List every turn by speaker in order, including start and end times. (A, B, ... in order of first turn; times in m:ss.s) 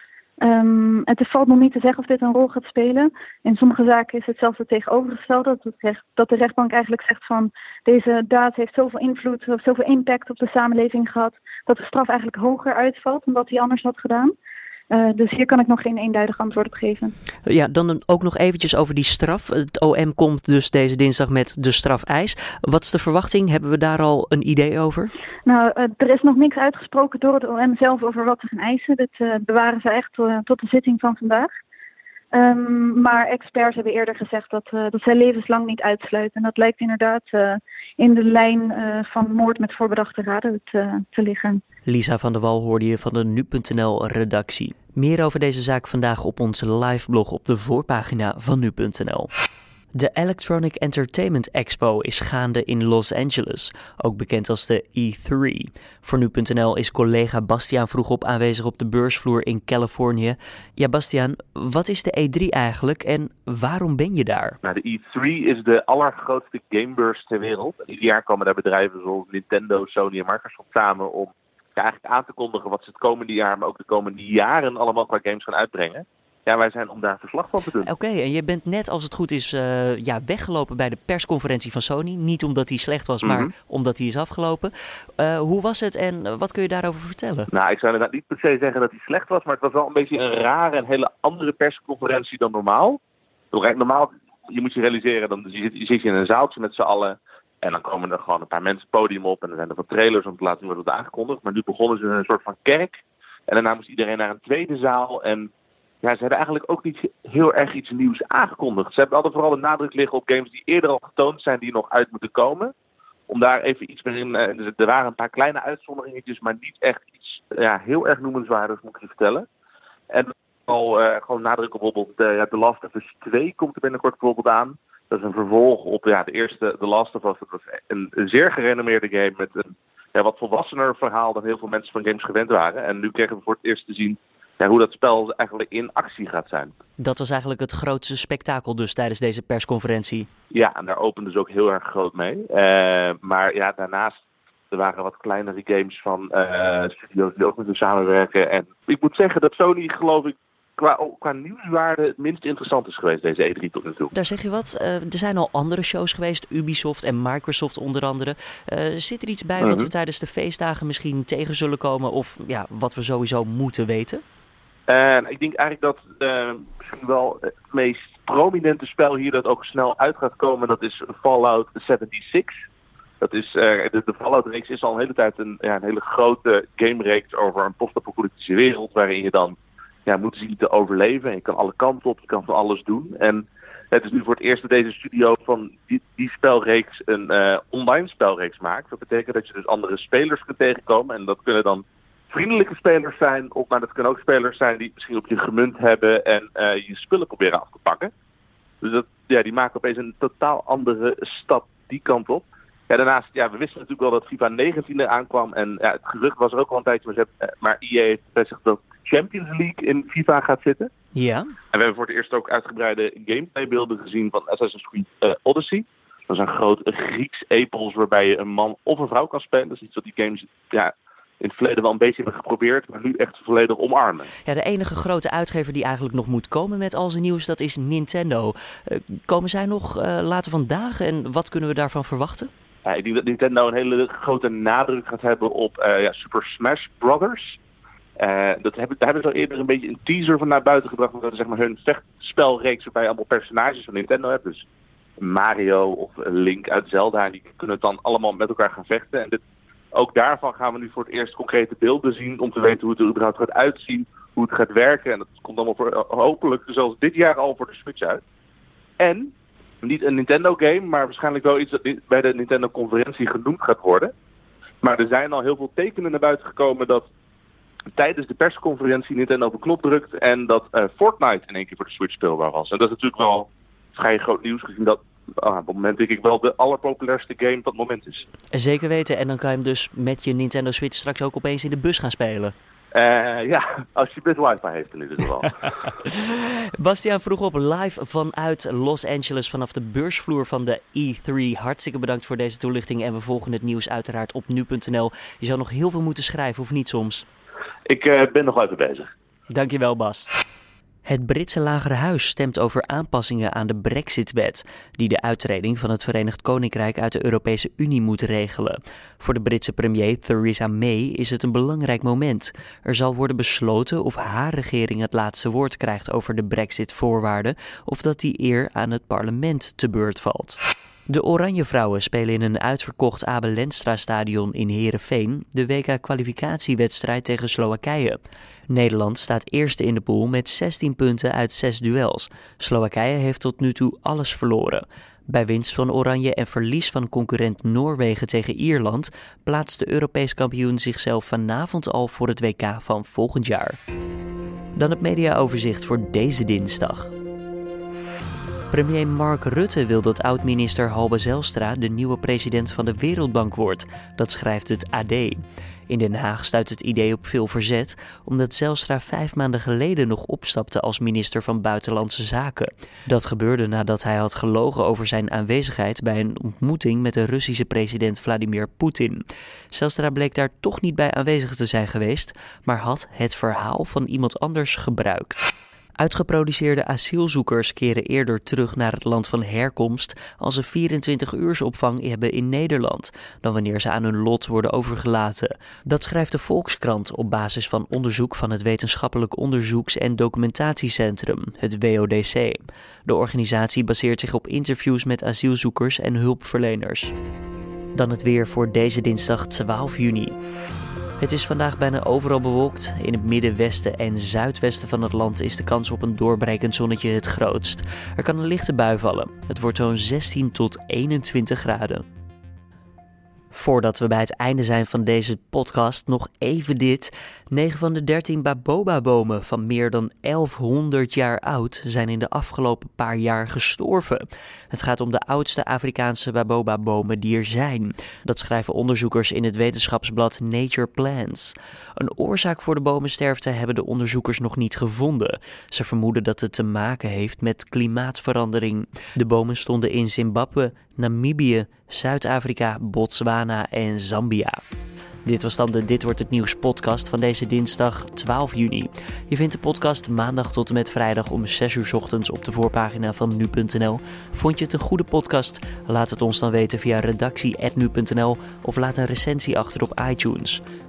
0:00.4-0:14.3 A
0:14.9-0:17.1 A
0:17.4-0:25.1 B
0:25.4-0:31.5 A
0:32.3-0:41.6 A
0:41.8-0:49.3 B
0:50.0-1:04.6 B
1:04.6-1:17.9 C
1:17.8-1:27.5 B
1:23.2-1:23.5 C
1:27.5-1:33.0 C
1:33.5-1:45.5 C
1:46.0-1:52.7 C
1:53.3-1:59.5 C
2:00.1-2:16.7 C
2:17.0-2:20.3 B
2:20.5-2:24.2 C
2:24.7-2:34.1 C
2:34.1-2:44.2 B
2:39.6-2:39.9 C
2:44.9-2:52.6 C
2:53.2-3:18.1 C
3:18.8-3:30.9 C
3:31.1-3:31.5 B
3:31.7-3:44.3 C
3:44.4-3:52.5 B
3:52.8-3:57.6 C
3:58.2-4:04.6 C
4:05.2-4:09.4 C
4:09.9-4:18.2 C
4:19.0-4:24.1 C
4:24.8-4:27.0 C
4:28.0-4:38.2 C
4:38.5-4:42.5 B
4:42.9-4:45.6 C
4:45.9-4:57.2 B
4:57.9-4:59.1 C
4:59.5-5:00.3 B
5:01.0-5:20.6 B
5:21.1-5:28.2 B
5:28.7-5:43.8 B
5:44.8-5:47.1 B
5:48.7-6:15.5 B
6:16.0-6:37.1 B
6:37.9-6:40.3 B
6:41.2-6:52.0 B
6:53.5-7:24.6 B
7:25.2-7:40.6 B